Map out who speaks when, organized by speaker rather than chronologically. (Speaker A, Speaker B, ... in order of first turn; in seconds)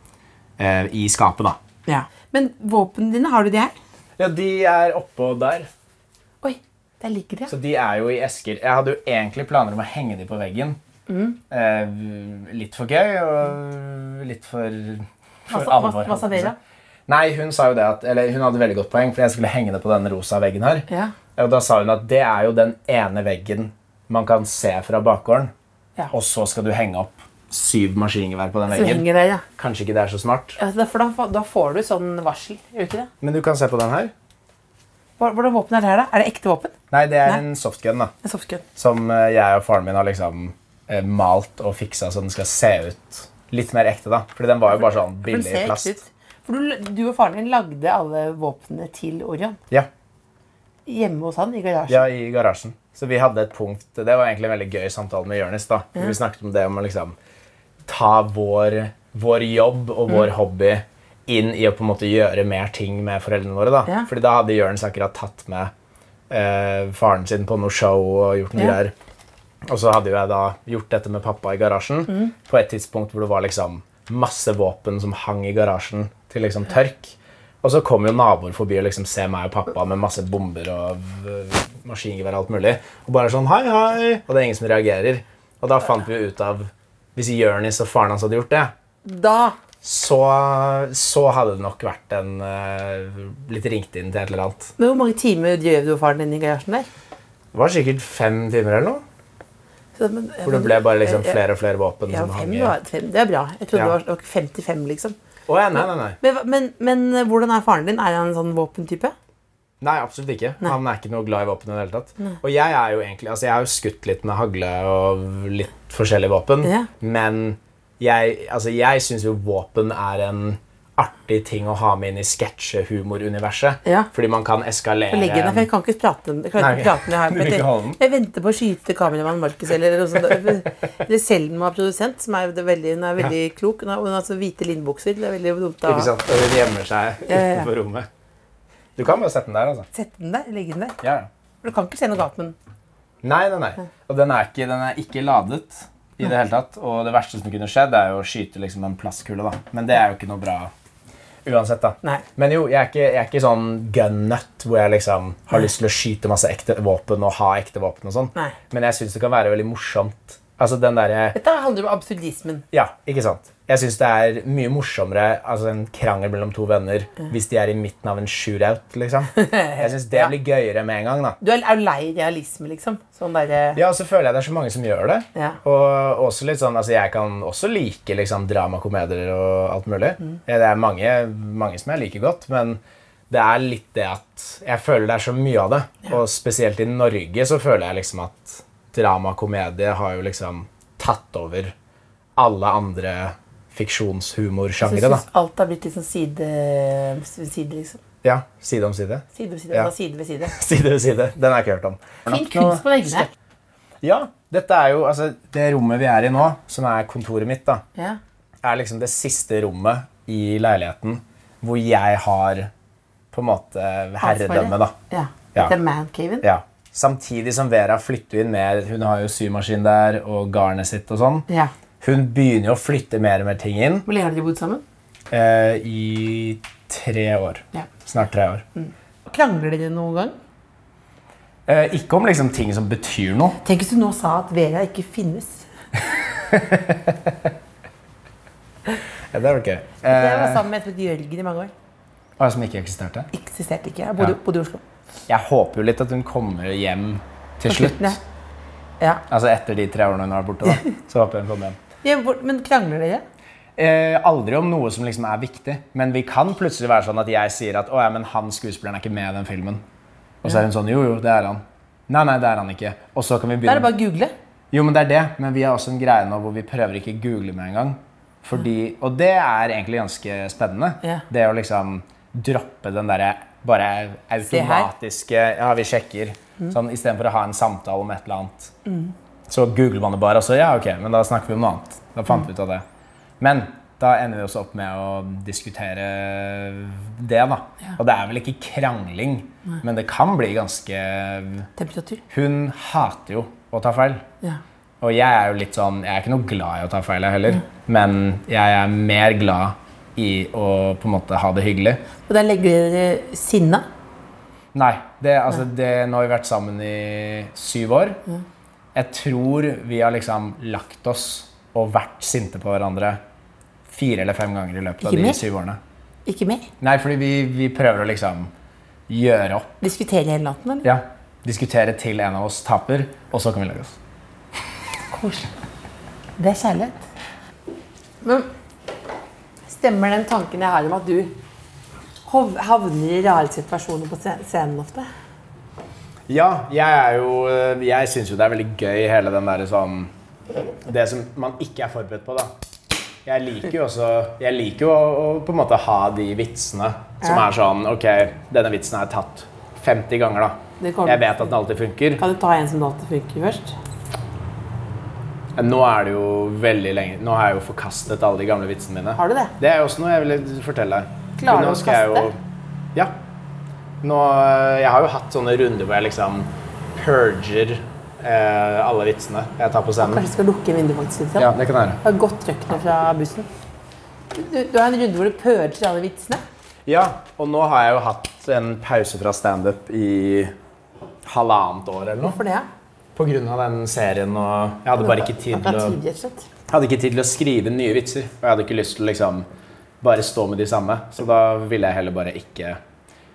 Speaker A: 0.6-1.6, 4.2-5.7, 7.5-10.8, 11.5-16.6, 17.1-25.5, 26.1-29.1, 29.6-30.6, 33.2-34.1, 36.9-38.1, 38.8-46.0, 51.9-57.2, 57.9-65.7, 66.3-68.9, 69.7-88.7, 89.8-94.7, 97.5-99.0, 100.4-102.8, 105.5-106.2, 109.8-125.7, 126.6-128.0, 135.8-138.1, 139.0-139.9, 141.0-141.3, 143.2-150.7, 151.4-161.4, 162.7-171.4, 173.8-191.8, 192.4-195.2, 198.2-199.9, 200.5-203.3, 204.0-207.8, 208.6-212.7, 213.3-214.9, 216.4-221.5, 222.0-224.1, 225.3-228.7, 231.7-233.6, 236.5-237.5, 239.3-240.7, 242.4-243.3, 245.3-248.2, 249.3-251.8, 253.8-259.8, 260.4-263.9, 264.7-278.7, 279.5-282.9, 283.4-291.7, 292.3-294.2, 295.0-302.0, 304.7-308.2, 308.9-313.2, 313.9-315.8, 316.8-318.5, 319.1-319.8, 320.8-323.9, 336.3-340.1, 340.8-342.5, 343.2-352.2, 355.6-362.4, 364.0-370.3, 371.4-372.0, 376.9-380.5, 381.2-382.4, 383.1-386.0, 386.7-389.5, 390.0-392.8
Speaker B: 1.9-3.8, 6.4-7.5, 11.1-11.4, 15.5-16.6, 20.9-21.1, 28.7-29.4, 30.6-33.1, 35.2-36.7, 38.2-38.6, 45.2-49.6, 50.9-52.0, 89.0-89.6, 94.8-96.9, 100.0-101.4, 102.1-105.2, 106.2-109.1, 116.6-116.9, 125.1-136.1, 137.3-137.7, 139.9-141.0, 141.6-142.6, 161.3-162.7, 169.4-170.3, 171.4-173.8, 194.8-198.0, 199.3-200.5, 202.3-203.3, 214.2-216.4, 224.1-224.8, 228.8-230.3, 233.6-235.7, 240.1-241.7, 243.3-244.8, 247.7-248.2, 252.0-253.2, 263.6-264.3, 274.4-274.9, 278.9-279.1, 291.8-292.2, 302.3-303.9, 315.0-315.4, 316.3-316.7, 319.8-320.9, 325.1-325.5, 326.4-327.0, 328.2-328.5, 329.7-331.4, 332.3-335.1, 350.8-351.4, 352.2-353.8, 359.1-359.5, 361.4-362.3, 370.0-371.5, 372.0-373.5, 374.3-376.4, 382.2-382.7, 385.0-386.5